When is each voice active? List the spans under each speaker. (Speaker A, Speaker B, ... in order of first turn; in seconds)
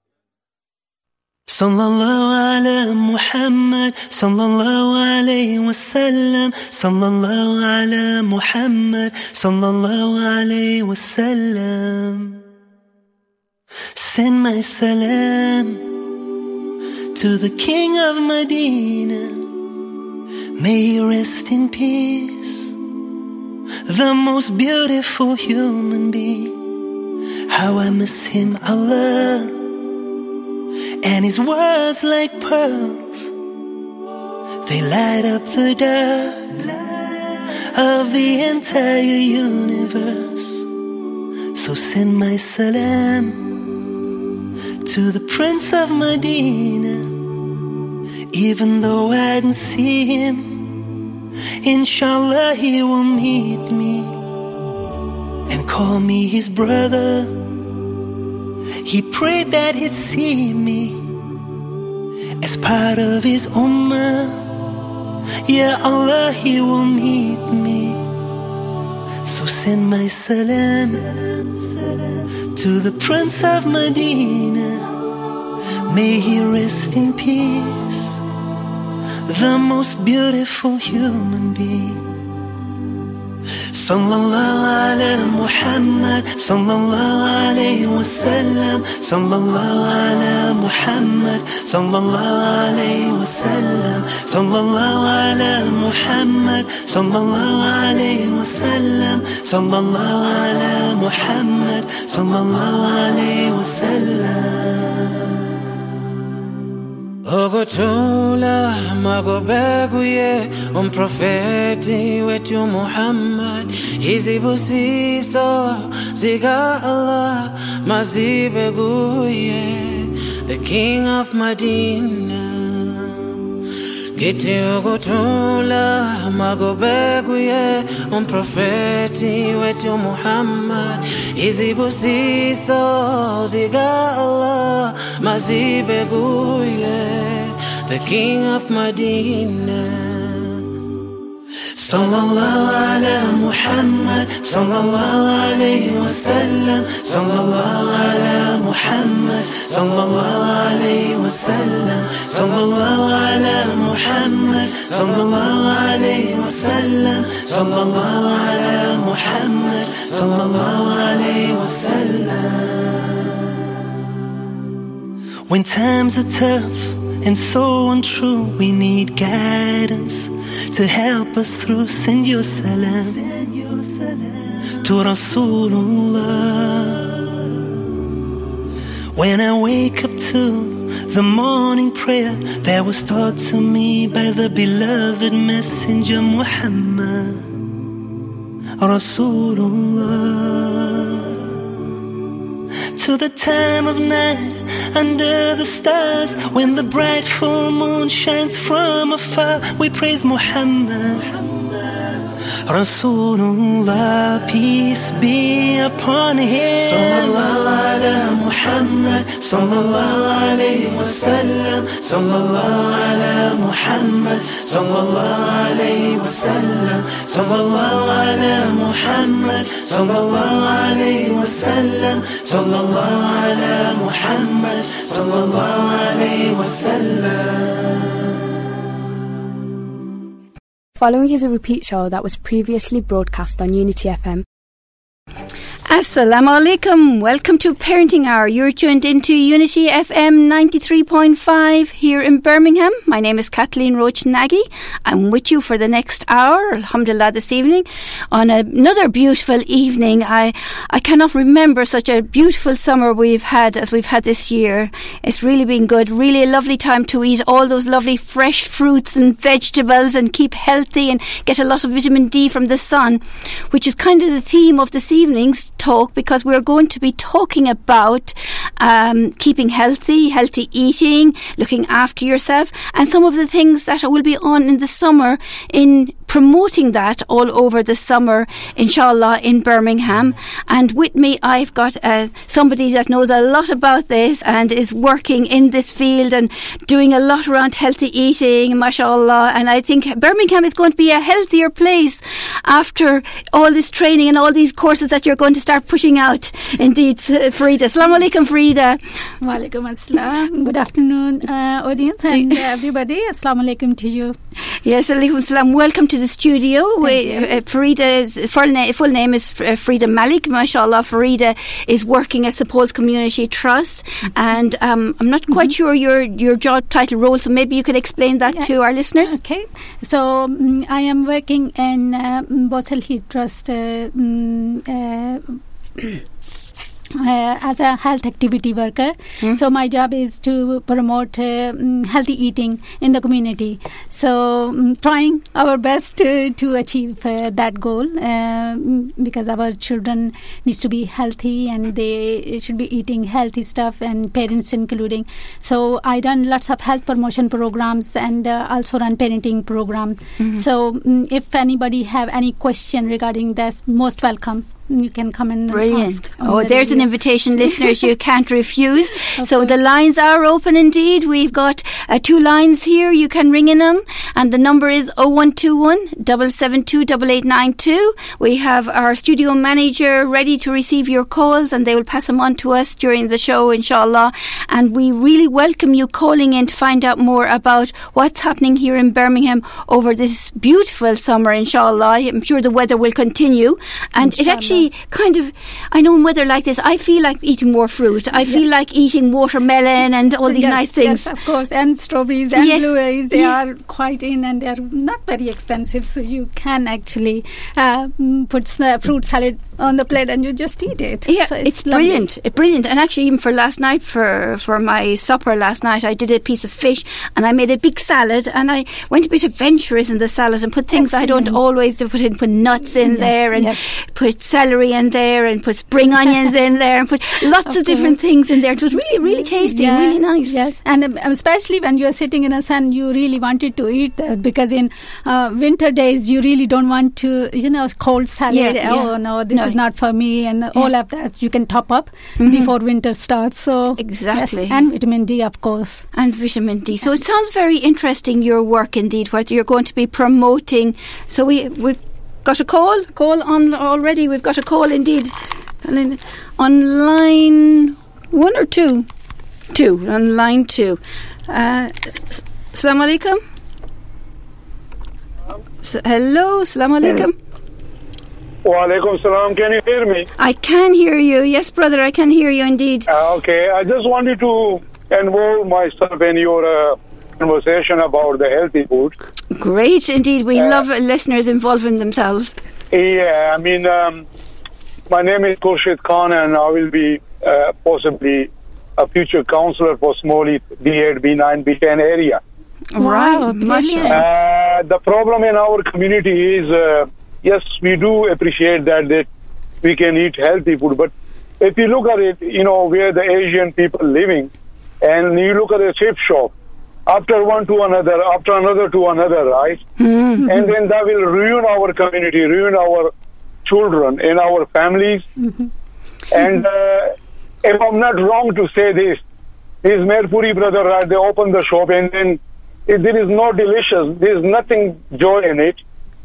Speaker A: 1.5-12.4, 13.9-15.9, 17.1-19.5, 20.6-22.8, 23.9-26.6, 27.5-29.7, 31.0-33.4, 34.6-40.7, 41.5-43.6, 44.8-47.2, 48.3-50.8, 51.6-54.2, 55.5-57.5, 58.8-61.2, 62.4-64.5, 65.5-68.1, 69.2-74.9, 75.9-78.2, 79.3-82.1, 83.7-105.1, 141.7-163.0, 165.5-177.4, 179.1-187.5, 188.8-191.4, 192.9-201.8, 202.7-227.9
Speaker B: 107.3-123.3, 124.2-140.6
Speaker C: 231.0-234.4
Speaker D: 235.9-299.0, 302.4-302.6, 304.8-319.4, 350.4-350.6, 355.7-391.4, 392.5-393.6, 401.3-420.7, 428.5-429.8, 432.4-432.7, 434.0-434.9, 436.1-449.1, 449.7-453.4, 455.8-457.4, 460.4-463.1, 469.5-472.6, 482.9-484.2, 500.0-500.4
Speaker E: 299.4-304.4, 307.0-307.6, 318.6-326.2, 327.1-358.1, 359.4-359.7, 384.2-384.9, 390.5-402.2, 410.9-411.6, 413.0-413.8, 417.7-418.1, 419.2-436.1, 483.0-484.2, 505.4-505.7
Speaker F: 458.6-460.3, 463.1-469.1, 470.6-470.8, 472.9-474.2, 475.1-482.4, 484.1-489.3, 489.8-494.5, 495.0-496.5, 497.1-499.8, 500.5-503.1, 503.6-505.3, 506.3-509.2, 509.8-515.8